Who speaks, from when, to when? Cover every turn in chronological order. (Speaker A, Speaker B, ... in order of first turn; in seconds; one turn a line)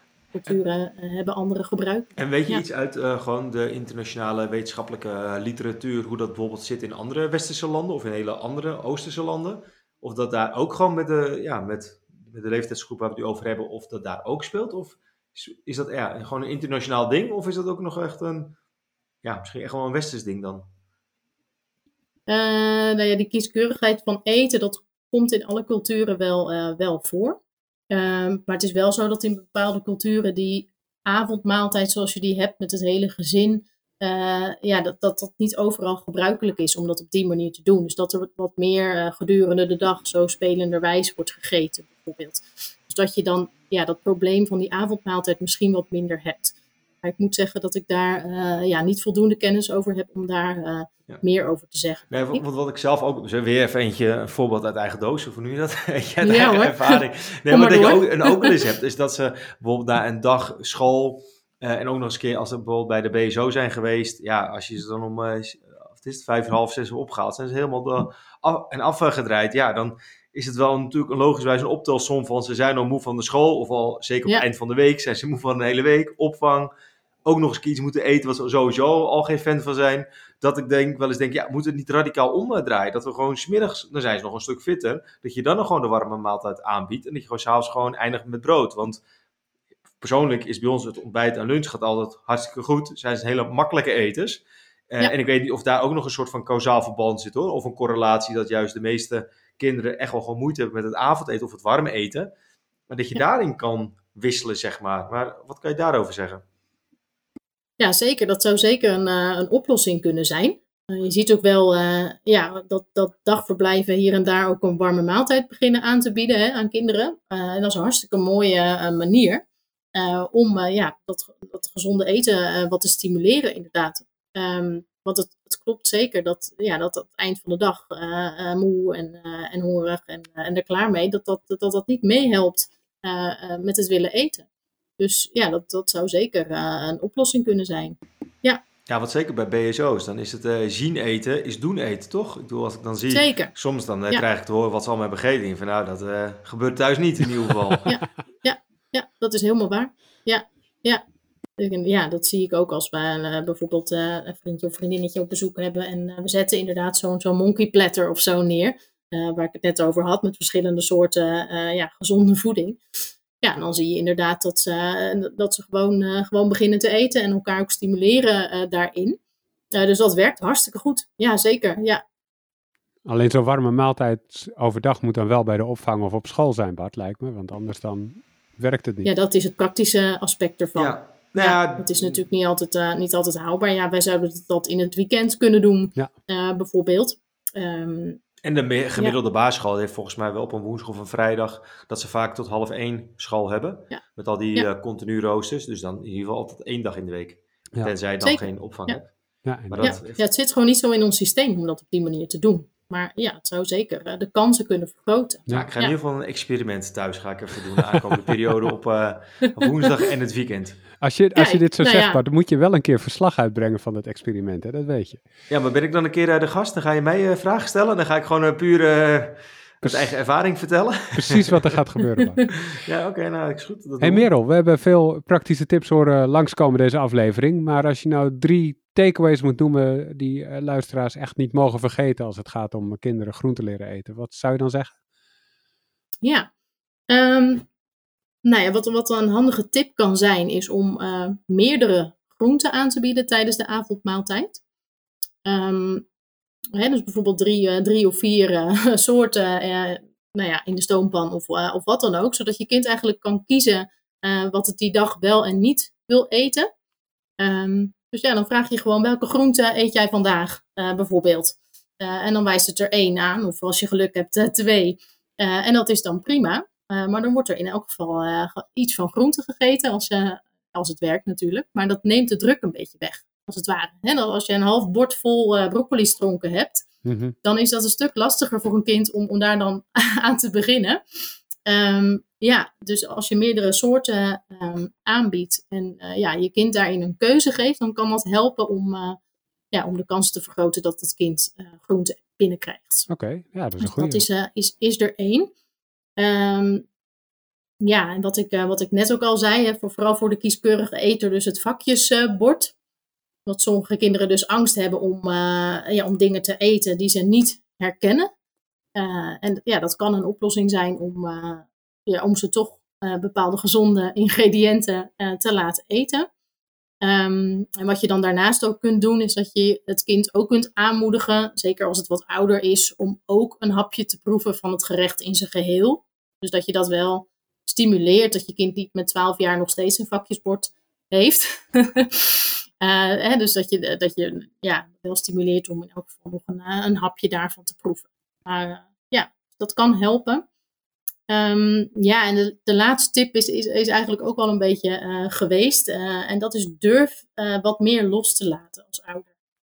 Speaker A: 0.3-2.6
Speaker B: 2.2-18.6
Speaker B: 19.2-20.6
Speaker A: 22.3-27.4
Speaker A: 27.9-52.4
Speaker B: 52.1-76.7
Speaker A: 56.2-58.5
Speaker B: 77.2-89.0
Speaker B: 90.0-102.3
Speaker B: 102.9-106.4
Speaker A: 107.8-119.4
Speaker A: 119.9-134.4
Speaker A: 135.0-138.6
Speaker B: 138.9-147.9
Speaker A: 143.1-143.5
Speaker A: 147.8-151.0
Speaker A: 151.6-162.8
Speaker A: 163.4-169.2
Speaker A: 169.7-172.0
Speaker C: 173.0-179.1
Speaker A: 179.0-188.2
Speaker B: 180.8-182.2
Speaker B: 188.4-199.1
Speaker A: 198.2-199.0
Speaker C: 199.4-200.0
Speaker B: 199.7-200.2
Speaker A: 199.8-205.9
Speaker B: 205.5-210.8
Speaker C: 211.0-215.2
Speaker A: 211.3-212.2
Speaker B: 215.5-221.6
Speaker C: 221.2-222.5
Speaker B: 222.7-224.3
Speaker C: 224.0-234.9
Speaker A: 236.2-236.5
Speaker A: 237.1-237.7
Speaker A: 238.4-244.6
Speaker A: 245.4-246.1
Speaker A: 246.8-256.7
Speaker A: 257.4-276.9
Speaker C: 277.0-277.3
Speaker A: 277.4-281.0
Speaker A: 281.6-289.2
Speaker A: 289.7-293.1
Speaker C: 293.1-294.2
Speaker A: 293.8-295.5
Speaker A: 296.2-296.9
Speaker A: 297.8-302.7
Speaker A: 303.4-308.3
Speaker A: 308.9-316.3
Speaker A: 317.0-340.4
Speaker A: 341.3-349.3